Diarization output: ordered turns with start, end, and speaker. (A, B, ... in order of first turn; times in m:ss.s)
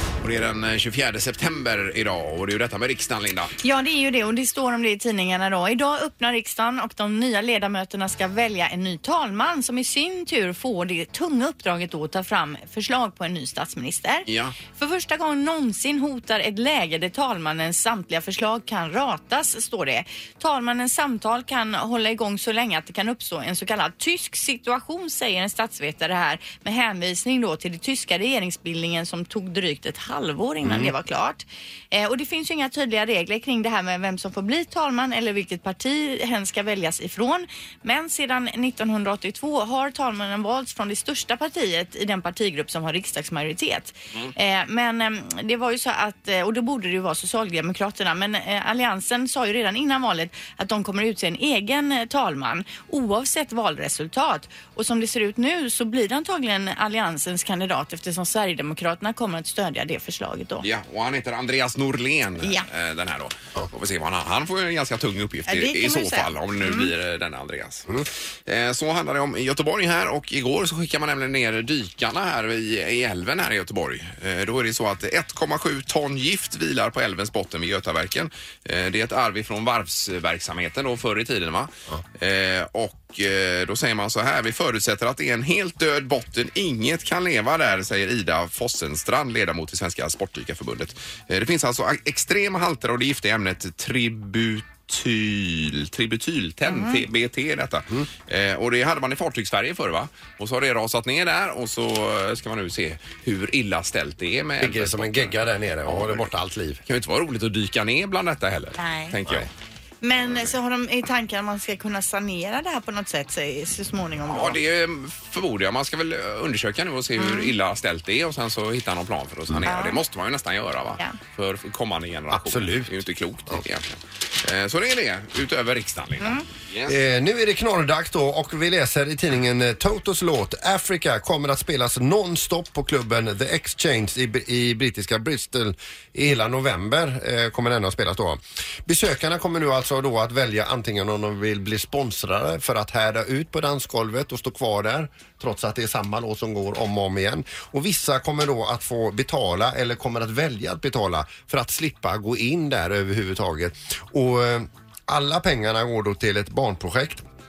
0:00.2-0:03.6 A
0:03.6-1:00.6 B
0:14.3-0:14.6 A
0:30.6-0:30.9 C
1:00.6-1:07.9 A
1:05.5-1:06.9 B
1:08.5-1:46.3 A
1:36.7-1:37.0 B
1:44.6-1:46.8 C
1:46.9-1:49.5 A
1:48.8-1:49.1 B
1:50.0-1:54.6 B
1:54.3-2:07.0 A
1:57.2-1:57.5 B
1:59.6-2:00.0 B
2:02.3-2:03.0 C
2:06.9-2:37.2 C